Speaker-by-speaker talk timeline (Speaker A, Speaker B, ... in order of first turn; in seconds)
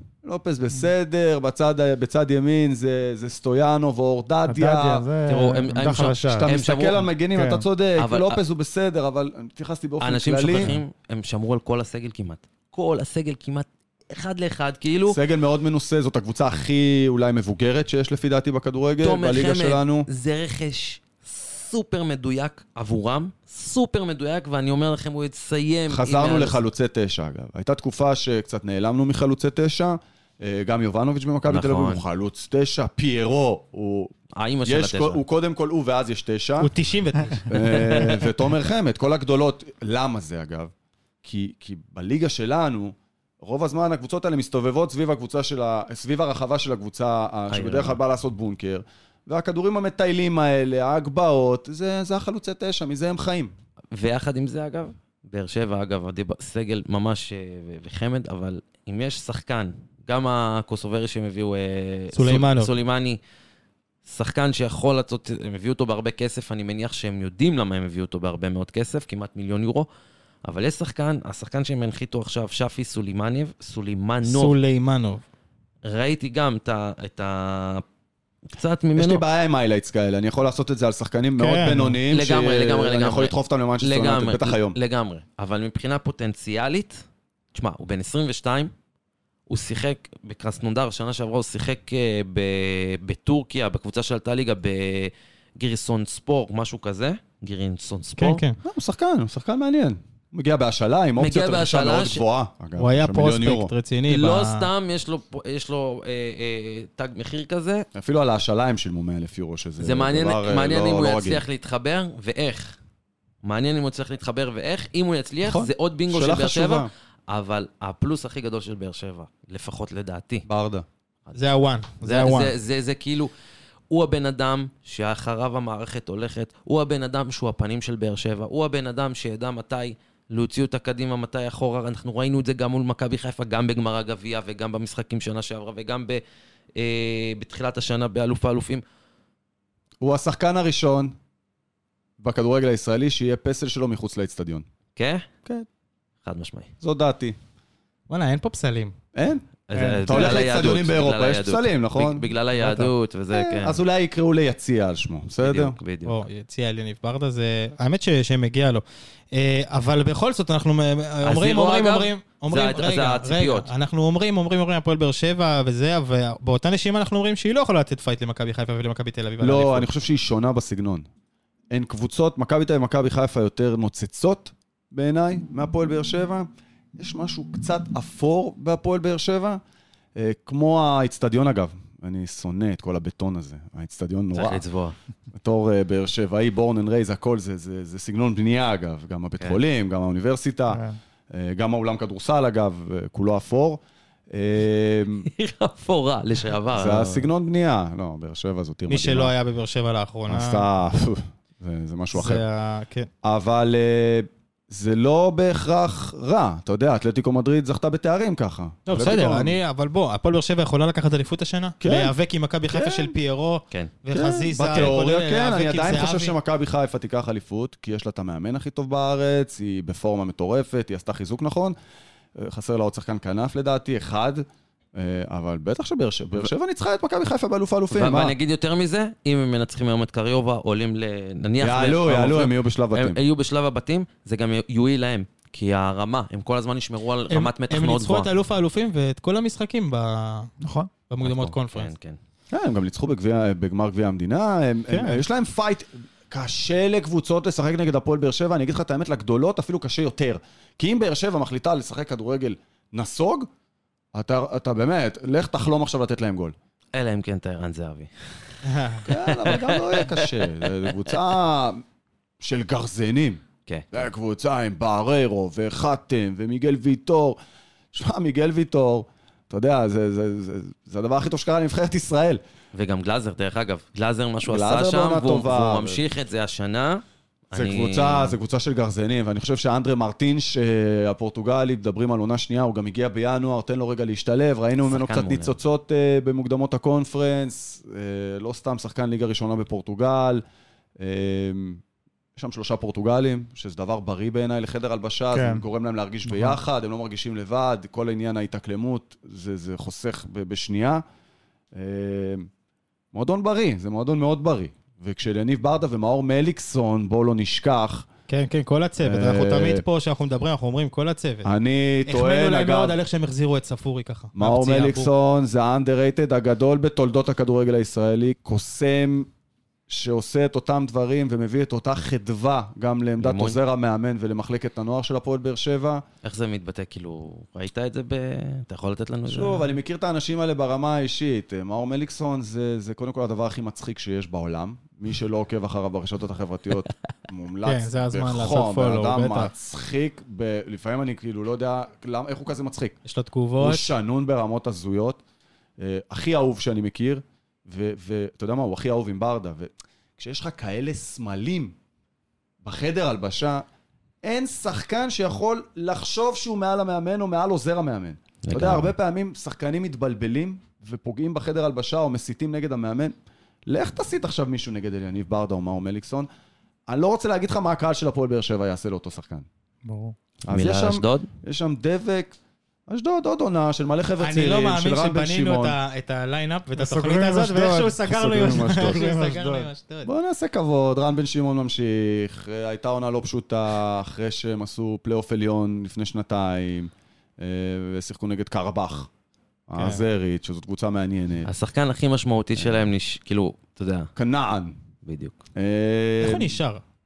Speaker A: 0.2-5.1, 5.8-10.8, 15.1-20.1, 25.9-34.1, 34.6-36.7, 37.5-40.7, 41.2-53.5, 79.0-84.8, 98.6-103.7, 107.9-111.4, 115.4-116.9, 120.5-120.8, 140.0-141.1, 142.2-144.6, 146.8-147.4, 149.1-149.4, 150.0-155.8, 169.4-171.1, 171.7-179.6, 180.1-184.6, 185.3-195.3, 196.7-199.3, 200.3-202.4, 203.2-209.6, 211.8-212.1, 212.7-213.1, 214.1-221.8, 222.3-228.3, 231.6-233.2, 242.5-253.5, 254.1-256.5, 259.1-261.8, 262.4-267.4, 267.9-272.4, 274.4-276.0, 277.5-290.4, 291.0-291.8, 292.4-301.0, 301.7-302.5, 303.1-308.1, 309.0-309.8, 311.4-312.9, 314.3-319.3, 319.9-326.0, 329.3-343.0, 343.6-345.2, 345.8-351.8, 352.6-353.6, 354.2-363.1, 363.6-366.3, 366.9-369.4, 370.5-372.4, 372.9-375.8, 378.1-379.0, 380.0-389.1, 389.7-391.5, 394.1-394.8, 395.5-396.5
Speaker B: 4.5-6.5, 7.3-7.6, 81.4-82.0, 190.7-190.9, 240.6-240.9, 295.3-295.6, 296.2-296.6, 369.8-370.1, 376.8-379.7
Speaker C: 5.2-7.1, 8.0-8.4, 10.0-15.2, 19.0-26.6, 31.5-32.0, 34.4-35.2, 47.5-48.0, 53.9-63.2, 64.0-69.9, 70.4-74.5, 75.8-77.8, 78.5-79.2, 82.1-88.7, 89.5-98.4, 101.2-102.2, 104.1-107.9, 109.8-112.8, 113.4-120.5, 122.0-123.3, 123.9-136.2, 136.8-138.8, 144.9-145.2, 146.2-146.7, 149.7-153.8, 155.4-156.2, 161.2-163.7, 184.3-184.9, 195.2-197.3, 227.9-238.3, 241.2-242.2, 256.9-258.1, 259.1-261.1, 263.6-264.0, 272.7-278.4, 284.8-285.5, 323.2-323.6, 326.2-329.7, 358.4-358.9, 370.5-371.3, 391.4-394.1, 395.0-395.4
Speaker D: 36.6-38.1, 62.1-62.7, 74.2-75.2, 81.5-81.8, 98.2-98.6, 102.8-104.7, 121.3-122.5, 148.1-148.9, 149.8-150.4, 156.1-169.9, 198.9-200.6, 202.1-203.1, 208.9-216.3, 237.3-240.5, 241.1-241.9, 244.9-245.2, 258.6-259.1, 308.3-311.5, 312.1-315.1, 337.6-339.5, 343.0-343.9, 374.2-380.1, 389.8-390.0, 396.2-396.8